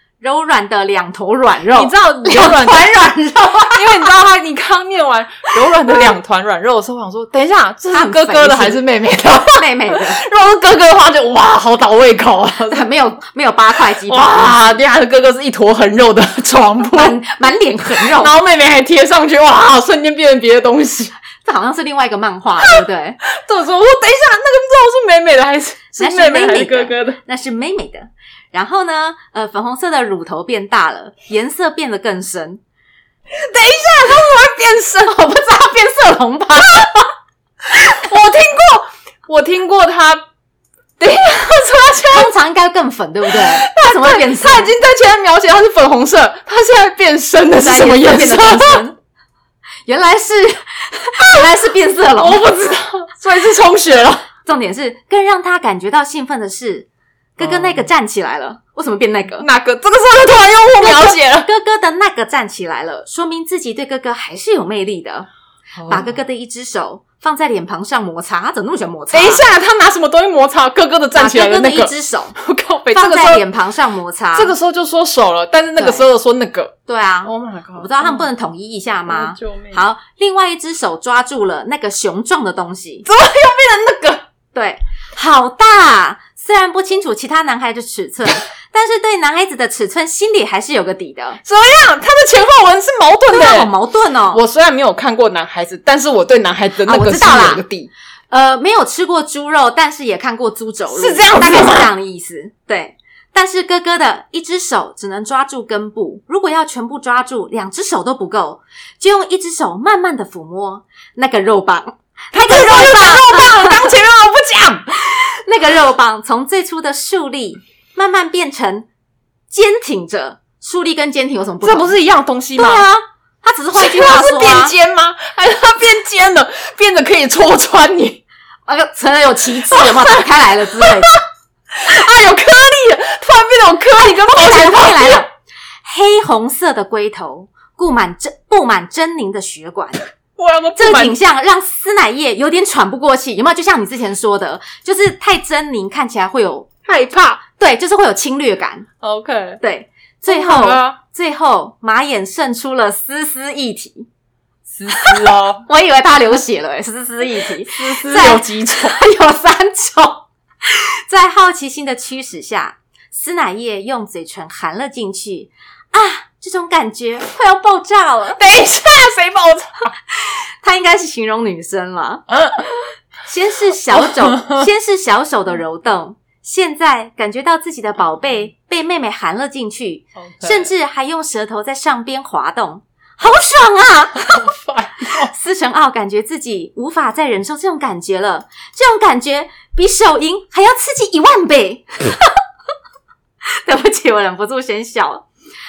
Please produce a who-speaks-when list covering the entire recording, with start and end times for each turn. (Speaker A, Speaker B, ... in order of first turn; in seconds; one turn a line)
Speaker A: 0.2-4.1
Speaker B: 1.7-12.8
Speaker A: 7.9-10.2
Speaker A: 12.7-14.6
Speaker B: 14.1-17.2
Speaker A: 16.8-18.3
Speaker B: 18.0-21.1
Speaker A: 21.4-23.2
Speaker B: 22.6-27.2
Speaker A: 26.0-32.6
Speaker B: 33.3-35.2
Speaker A: 35.0-37.1
Speaker B: 37.6-40.2
Speaker B: 41.0-42.3
Speaker A: 42.1-44.7
Speaker B: 43.3-48.8
Speaker A: 47.6-49.0
Speaker A: 49.9-52.5
Speaker B: 52.2-54.3
Speaker A: 54.4-59.5
Speaker B: 57.4-57.9
Speaker B: 59.4-61.5
Speaker A: 60.8-65.3
Speaker B: 65.8-66.2
Speaker A: 65.9-69.4
Speaker B: 69.1-73.5
Speaker A: 71.1-72.4
Speaker A: 72.9-74.5
Speaker B: 74.3-78.3
Speaker A: 75.8-76.1
Speaker A: 76.9-83.0
Speaker B: 79.0-79.8
Speaker B: 83.0-84.2
Speaker A: 84.5-91.4
Speaker B: 91.4-93.7
Speaker A: 93.3-94.4
Speaker B: 94.3-97.9
Speaker A: 96.8-97.6
Speaker A: 98.3-113.9
Speaker B: 100.9-101.9
Speaker B: 112.3-114.9
Speaker A: 115.0-118.9
Speaker A: 119.5-122.0
Speaker B: 121.6-122.9
Speaker A: 122.5-124.7
Speaker B: 123.8-128.2
Speaker A: 128.7-131.2
Speaker B: 129.7-130.2
Speaker B: 130.8-131.2
Speaker B: 131.7-135.2
Speaker A: 133.9-135.3
Speaker A: 135.8-140.1
Speaker B: 140.3-141.2
Speaker A: 140.8-146.7
Speaker B: 146.8-147.4
Speaker A: 147.6-148.9
Speaker B: 149.0-149.6
Speaker A: 149.6-154.1
Speaker B: 150.3-151.0
Speaker B: 154.7-155.6
Speaker A: 154.9-168.4
Speaker B: 157.6-159.0
Speaker B: 168.3-169.9
Speaker A: 170.1-172.3
Speaker B: 172.3-172.6
Speaker A: 173.2-184.5
Speaker B: 173.9-174.7
Speaker B: 180.2-180.7
Speaker B: 184.2-185.3
Speaker A: 185.2-192.3
Speaker A: 193.6-195.2